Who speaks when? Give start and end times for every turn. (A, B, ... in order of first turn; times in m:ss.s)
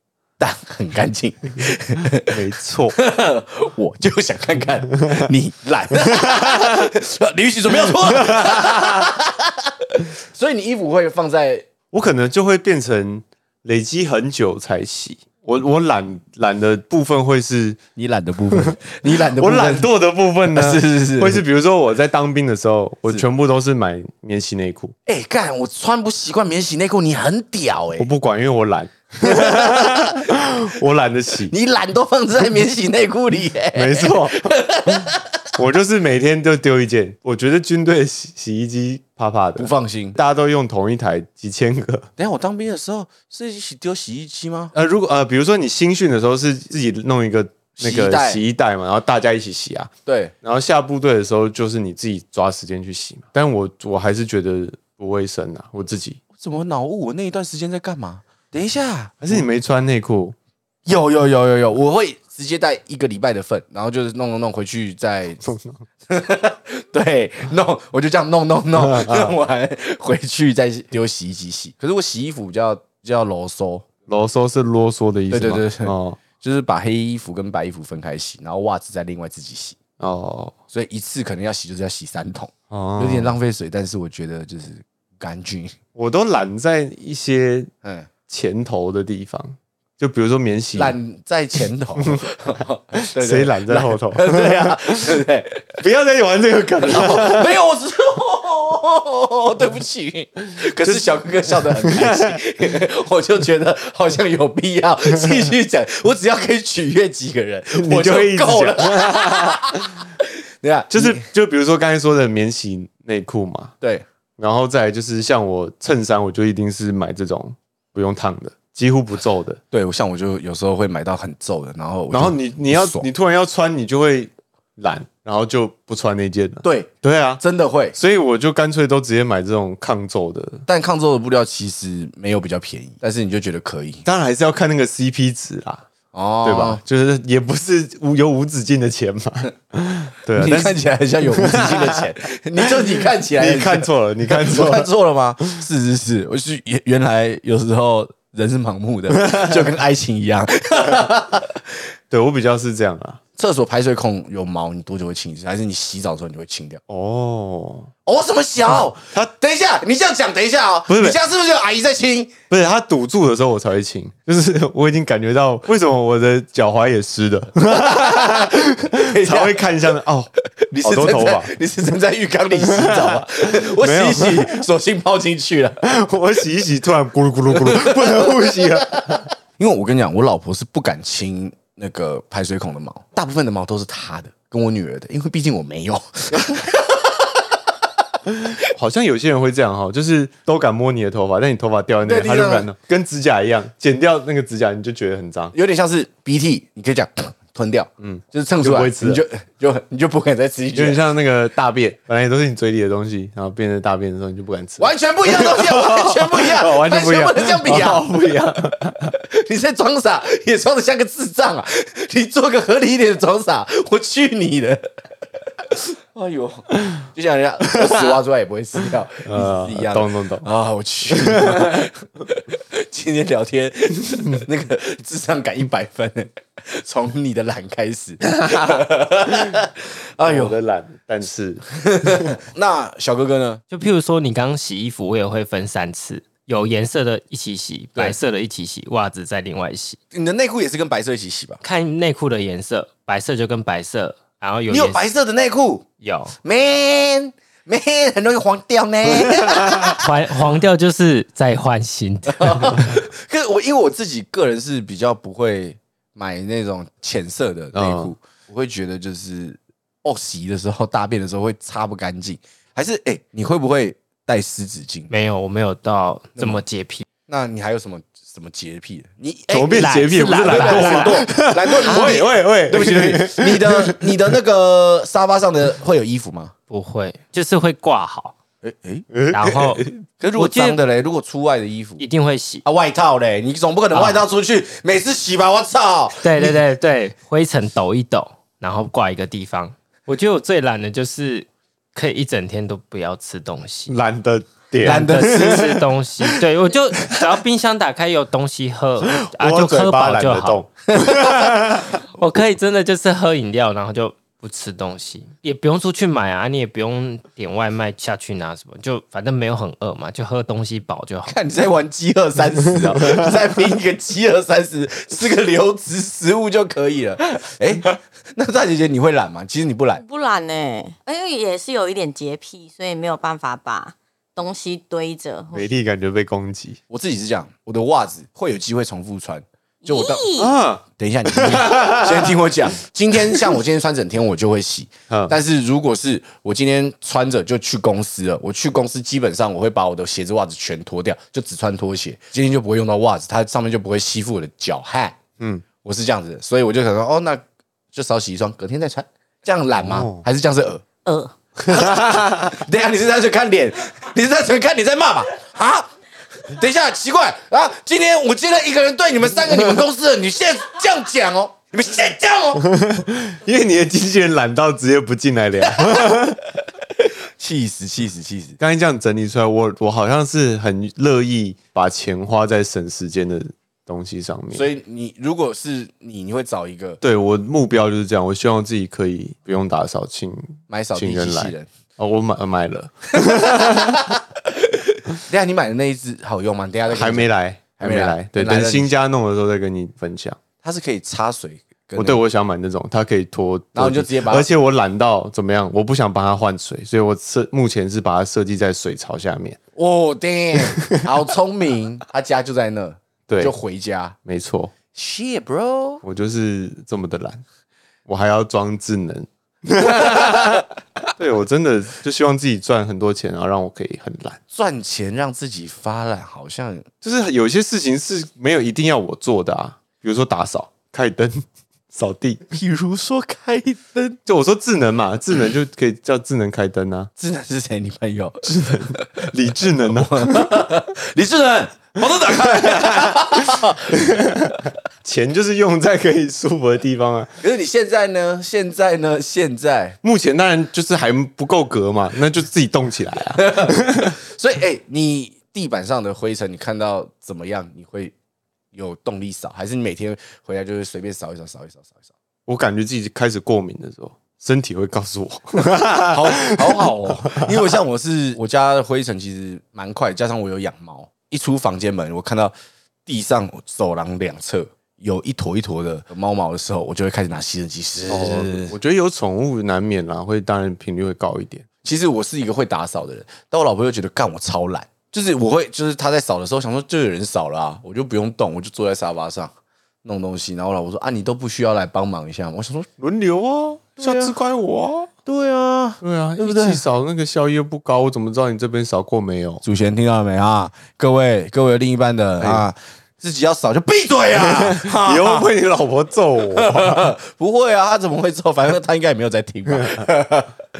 0:00.4-0:02.4 A
0:02.2-0:03.0 B
0:02.9-0:11.7 A
0:05.0-0:05.3 B
0:05.9-0:06.9 B
0:07.7-0:09.1 B
0:11.9-0:17.8 B
0:18.0-0:19.9 A
0:18.5-0:25.0 B
0:20.5-0:21.4 A
0:25.1-0:28.1 A
0:28.0-0:31.5 B
0:29.2-0:30.4 A
0:31.5-0:35.3 A
0:33.7-0:35.0 B
0:35.6-0:42.1 B
0:39.6-0:40.2 A
0:42.2-0:44.7 A
0:44.7-0:49.9 B
0:47.8-0:48.4 A
0:50.1-0:50.3 A
0:50.4-0:56.2 B
0:56.4-0:59.4 A
0:59.2-1:00.4 B
1:00.9-1:05.5 A
1:05.4-1:05.8 B
1:06.1-1:13.9 A
1:08.8-1:09.4 B
1:14.1-1:16.2 B
1:15.3-1:19.8 A
1:20.0-1:20.6 B
1:20.7-1:25.8 A
1:22.7-1:23.4 B
1:26.0-1:27.7 B
1:27.8-1:28.1 A
1:28.3-1:31.0 B
1:30.8-1:35.8 A
1:32.0-1:32.3 B
1:33.0-1:35.2 B
1:35.8-1:37.5 B
1:36.8-1:51.3 A
1:40.8-1:42.4 B
1:47.7-1:50.0 B
1:50.9-1:53.7 B
1:53.8-1:54.1 A
1:54.4-1:59.6 B
1:59.7-2:03.1 A
2:02.1-2:07.4 B
2:06.6-2:08.0 A
2:08.0-2:10.6 B
2:10.7-2:14.0 A
2:14.0-2:15.9 B
2:16.1-2:16.8 A
2:16.4-2:22.1 B
2:20.4-2:31.6 A
2:22.6-2:24.9 B
2:29.3-2:29.6 B
2:32.1-2:33.2 B
2:33.4-2:36.8 A
2:36.9-2:37.9 B
2:38.0-2:42.4 A
2:38.6-2:39.3 B
2:40.9-2:41.2 B
2:42.5-2:51.5 B
2:47.7-2:49.6 A
2:50.7-2:55.9 A
2:52.6-2:54.7 B
2:55.8-2:59.3 B
2:57.5-2:58.6 A
2:59.6-3:07.3 A
3:08.3-3:15.5 B
3:12.0-3:12.7 A
3:15.5-3:21.0 A
3:18.0-3:19.2 B
3:20.8-3:29.1 B
3:24.8-3:28.0 A
3:29.1-3:34.9 A
3:35.6-3:50.6 A
3:37.8-3:38.2 B
3:39.2-3:40.5 B
3:41.1-3:41.8 B
3:50.2-3:52.3 B
3:51.7-3:53.6 A
3:53.7-4:00.0 C
4:00.1-4:01.6 A
4:01.6-4:05.0 C
4:04.7-4:05.9 A
4:06.0-4:06.4 C
4:06.4-4:10.1 A
4:09.4-4:13.0 C
4:12.3-4:25.1 A
4:17.7-4:18.1 B
4:25.1-4:27.0 C
4:26.4-4:26.6 A
4:27.3-4:36.5 A
4:29.5-4:34.4 B
4:29.7-4:31.2 C
4:36.7-4:38.4 C
4:38.6-4:39.1 A
4:39.1-4:39.9 B
4:39.3-4:40.8 C
4:40.2-4:42.0 A
4:42.0-4:42.6 C
4:42.6-4:46.3 A
4:43.9-4:44.2 C
4:46.2-4:53.9 C
4:53.9-4:56.4 B
4:54.8-5:00.6 C
4:54.8-4:55.6 A
4:59.2-5:02.0 B
5:02.2-5:11.4 C
5:11.3-5:20.0 A
5:20.0-5:25.7 D
5:25.5-5:26.8 B
5:26.9-5:30.3 A
5:29.8-5:30.5 D
5:30.4-5:32.4 B
5:31.0-5:45.2 A
5:35.1-5:35.4 B
5:45.4-5:45.6 B
5:45.8-5:47.4 A
5:47.9-5:50.8 A
5:49.8-5:50.2 B
5:51.1-5:51.3 D
5:51.7-5:55.9 A
5:51.7-5:52.3 B
5:56.4-6:02.6 A
6:02.6-6:06.5 B
6:07.4-6:08.6 A
6:08.6-6:14.7 B
6:14.5-6:17.0 A
6:17.0-6:24.2 B
6:20.7-6:21.7 A
6:23.3-6:28.9 A
6:26.9-6:30.4 B
6:30.6-6:32.2 A
6:32.0-6:39.6 B
6:33.7-6:34.5 A
6:39.8-6:44.2 A
6:40.7-6:41.1 B
6:43.3-6:43.5 B
6:44.2-6:44.7 B
6:44.9-6:46.0 A
6:46.0-6:47.4 B
6:48.1-6:54.4 B
6:54.5-6:56.9 A
6:57.0-7:02.4 B
7:02.5-7:04.2 A
7:04.3-7:07.1 B
7:07.2-7:09.3 A
7:08.5-7:10.7 B
7:09.9-7:14.2 A
7:12.1-7:17.3 B
7:17.4-7:20.0 A
7:20.0-7:24.2 B
7:23.4-7:28.1 A
7:28.7-7:32.0 A
7:32.5-7:37.6 B
7:36.1-7:42.5 A
7:43.1-7:48.8 A
7:48.1-7:51.7 B
7:51.8-7:59.5 A
8:00.0-8:02.9 A
8:03.0-8:05.1 B
8:04.0-8:04.3 A
8:05.3-8:06.8 A
8:06.0-8:09.6 B
8:09.6-8:15.5 A
8:12.4-8:12.6 B
8:14.4-8:17.1 B
8:16.5-8:20.6 A
8:19.7-8:20.1 B